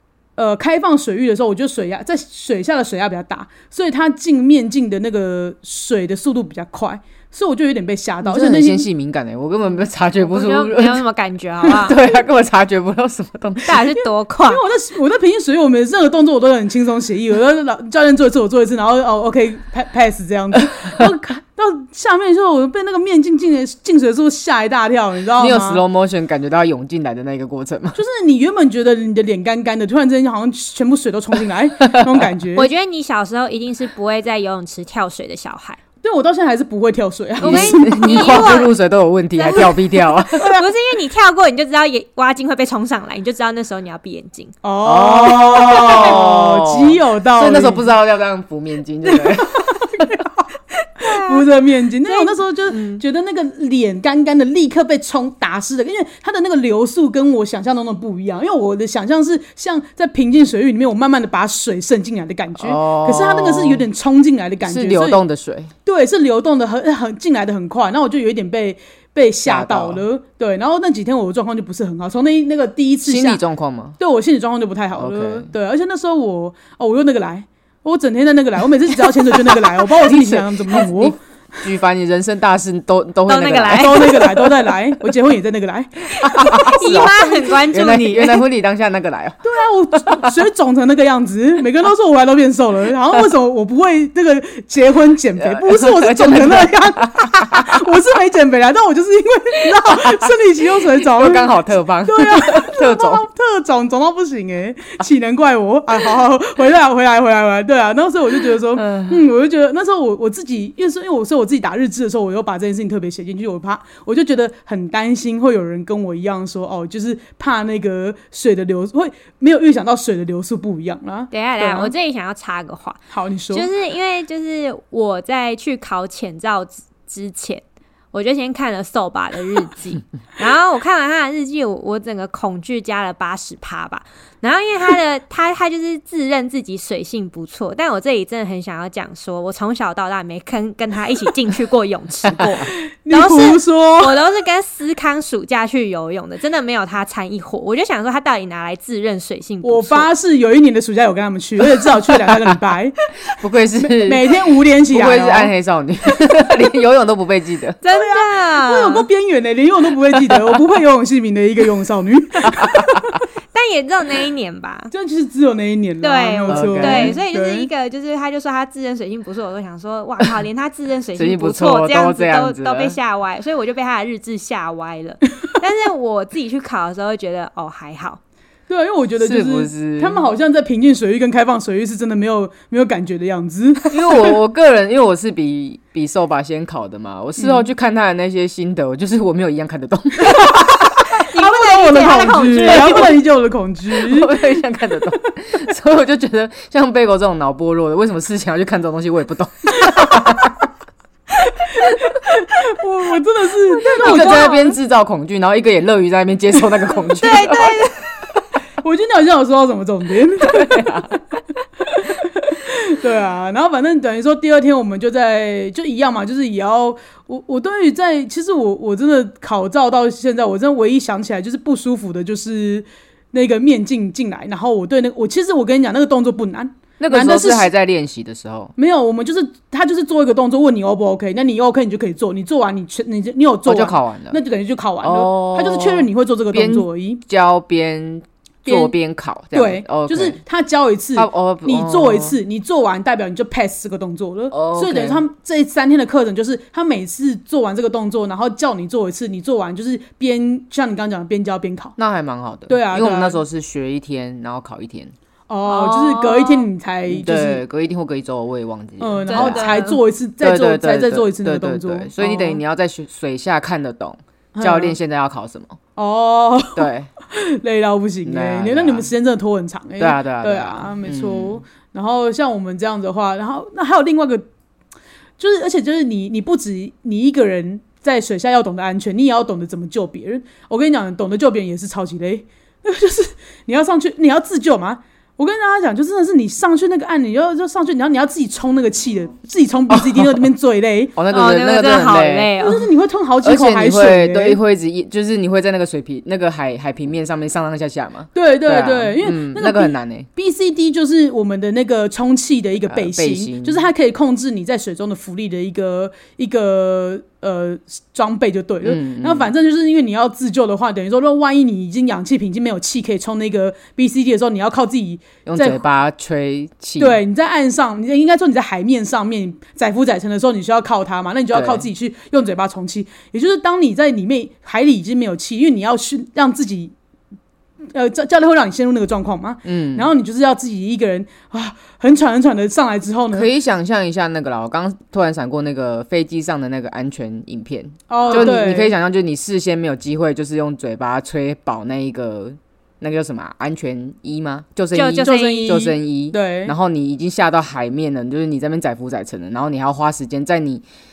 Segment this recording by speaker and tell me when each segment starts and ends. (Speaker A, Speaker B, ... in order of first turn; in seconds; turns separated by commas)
Speaker A: 0.4-8.9, Speaker B: 8.2-11.1, Speaker C: 10.2-12.0, Speaker B: 11.6-13.9, Speaker C: 13.7-14.6, Speaker A: 14.5-25.8, Speaker B: 25.4-28.0, Speaker A: 27.9-32.7, Speaker C: 32.6-35.8, Speaker A: 36.0-38.5, Speaker C: 37.4-38.8, Speaker B: 37.4-40.5, Speaker C: 39.4-44.5, Speaker A: 40.4-40.6, Speaker A: 44.6-47.9, Speaker B: 44.9-50.1, Speaker A: 49.0-50.5, Speaker A: 51.0-65.2, Speaker C: 51.0-51.5, Speaker C: 52.0-52.4, Speaker B: 62.6-63.9, Speaker B: 64.6-65.7, Speaker A: 65.8-73.4, Speaker B: 69.5-70.0, Speaker B: 73.1-74.0, Speaker A: 74.0-81.2, Speaker B: 75.0-75.5, Speaker B: 79.3-84.3, Speaker C: 83.3-84.5, Speaker A: 83.7-87.1, Speaker B: 86.2-89.4, Speaker C: 86.4-88.5, Speaker A: 89.4-121.9, Speaker B: 95.4-97.8, Speaker B: 99.9-100.2, Speaker B: 100.8-103.3, Speaker B: 108.7-109.2, Speaker C: 121.3-123.0, Speaker A: 123.1-123.7, Speaker C: 123.5-150.1, Speaker A: 142.7-144.2, Speaker A: 149.6-152.9, Speaker B: 153.3-154.2, Speaker A: 153.8-155.5, Speaker B: 154.9-157.8, Speaker C: 157.8-159.1, Speaker A: 157.9-163.2, Speaker B: 162.4-163.0, Speaker C: 163.5-164.9, Speaker A: 164.9-167.7, Speaker C: 166.0-178.2, Speaker B: 166.5-167.2, Speaker B: 171.2-173.0, Speaker A: 178.7-184.2, Speaker B: 179.2-180.2, Speaker B: 183.9-190.8, Speaker A: 187.4-187.7, Speaker A: 190.3-194.4, Speaker C: 191.1-193.2, Speaker B: 193.9-200.6, Speaker A: 199.9-200.3, Speaker A: 201.6-204.7, Speaker B: 203.9-207.8, Speaker C: 204.0-204.6, Speaker C: 207.1-208.0, Speaker A: 208.8-211.2, Speaker B: 210.4-211.2, Speaker A: 211.9-227.7, Speaker B: 227.0-228.7, Speaker A: 228.8-237.2, Speaker B: 233.7-234.4, Speaker B: 235.0-240.4, Speaker A: 238.7-238.9, Speaker A: 239.5-252.0, Speaker B: 241.2-242.4, Speaker B: 244.5-245.2, Speaker B: 252.0-255.1, Speaker A: 252.7-253.4, Speaker A: 255.5-257.6, Speaker C: 255.7-256.7, Speaker B: 257.1-259.8, Speaker A: 259.0-262.6, Speaker C: 259.3-260.0, Speaker B: 260.4-265.8, Speaker A: 264.6-265.0, Speaker A: 266.0-274.5, Speaker B: 266.8-267.1, Speaker B: 268.2-269.1, Speaker B: 270.0-271.6, Speaker A: 275.4-291.1, Speaker B: 289.9-290.3, Speaker B: 291.2-292.5, Speaker C: 291.3-292.9, Speaker A: 292.6-294.6, Speaker B: 293.4-300.3, Speaker A: 298.3-315.8, Speaker B: 302.9-303.9, Speaker B: 308.8-309.5, Speaker B: 315.5-317.2, Speaker A: 317.0-326.9, Speaker B: 321.5-321.9, Speaker A: 327.9-333.5, Speaker B: 329.6-330.1, Speaker B: 333.3-350.8, Speaker A: 338.1-338.9, Speaker C: 338.2-338.5, Speaker C: 344.9-345.8, Speaker A: 345.2-346.8